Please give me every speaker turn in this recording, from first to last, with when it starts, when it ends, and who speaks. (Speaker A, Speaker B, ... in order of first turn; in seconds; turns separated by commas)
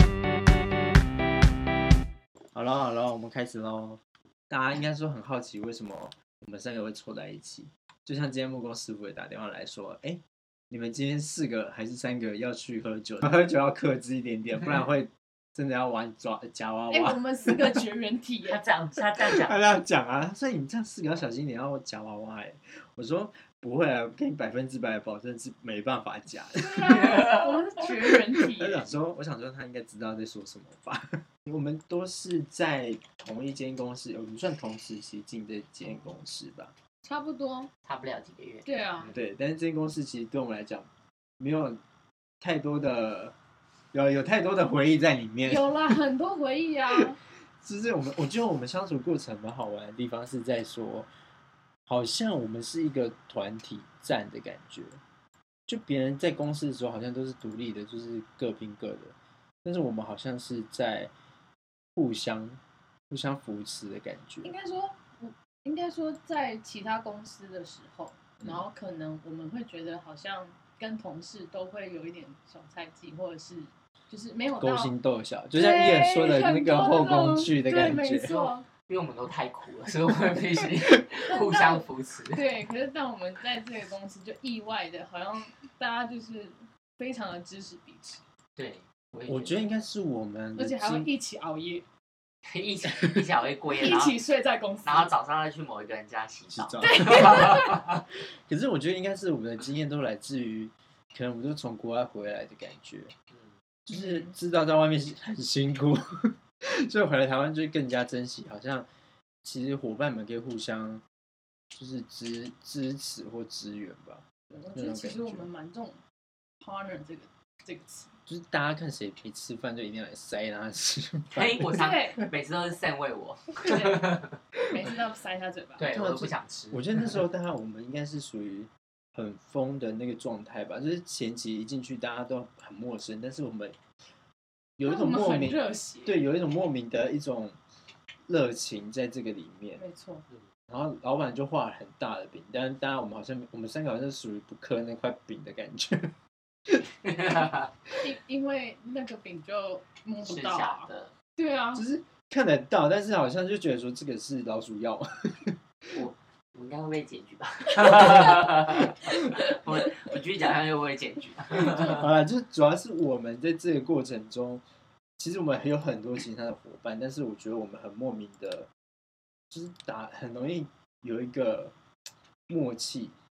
Speaker A: 2.5-17.8, Speaker B: 16.9-18.6, Speaker C: 18.4-19.6, Speaker A: 19.2-36.7, Speaker B: 26.5-28.9, Speaker C: 27.0-27.4, Speaker B: 35.8-36.1, Speaker B: 37.0-37.7, Speaker C: 37.8-39.2, Speaker B: 38.6-39.1, Speaker A: 39.1-40.9, Speaker A: 41.4-41.8, Speaker A: 42.4-43.3, Speaker A: 43.9-45.9, Speaker B: 45.4-47.2, Speaker A: 47.6-51.1, Speaker A: 51.9-55.0, Speaker A: 55.7-61.1, Speaker A: 62.0-62.6, Speaker A: 63.1-64.5, Speaker B: 64.4-74.9, Speaker A: 74.6-78.4, Speaker B: 75.5-78.7, Speaker C: 78.2-82.5, Speaker B: 81.3-88.2, Speaker C: 88.5-89.7, Speaker A: 89.3-91.1, Speaker B: 90.5-91.8, Speaker C: 92.5-94.2, Speaker B: 93.7-95.1, Speaker C: 94.8-97.7, Speaker A: 96.5-103.1, Speaker B: 96.8-97.8, Speaker A: 103.8-106.0, Speaker B: 103.9-104.3, Speaker A: 106.8-108.9, Speaker A: 109.4-111.0, Speaker A: 111.7-115.5, Speaker B: 114.5-116.0, Speaker B: 116.6-118.1, Speaker A: 118.3-122.2, Speaker C: 121.3-124.3, Speaker B: 121.8-122.2, Speaker B: 123.6-125.9, Speaker C: 125.8-127.2, Speaker A: 125.9-133.7, Speaker A: 134.8-137.6, Speaker B: 134.8-136.2, Speaker A: 138.3-139.8, Speaker B: 139.7-140.2, Speaker A: 140.7-146.1, Speaker C: 147.0-147.7, Speaker B: 148.0-151.8, Speaker C: 150.2-151.1, Speaker A: 151.7-155.5, Speaker C: 155.9-162.0, Speaker A: 161.6-164.6, Speaker A: 165.2-168.7, Speaker A: 169.5-171.7, Speaker A: 172.5-173.2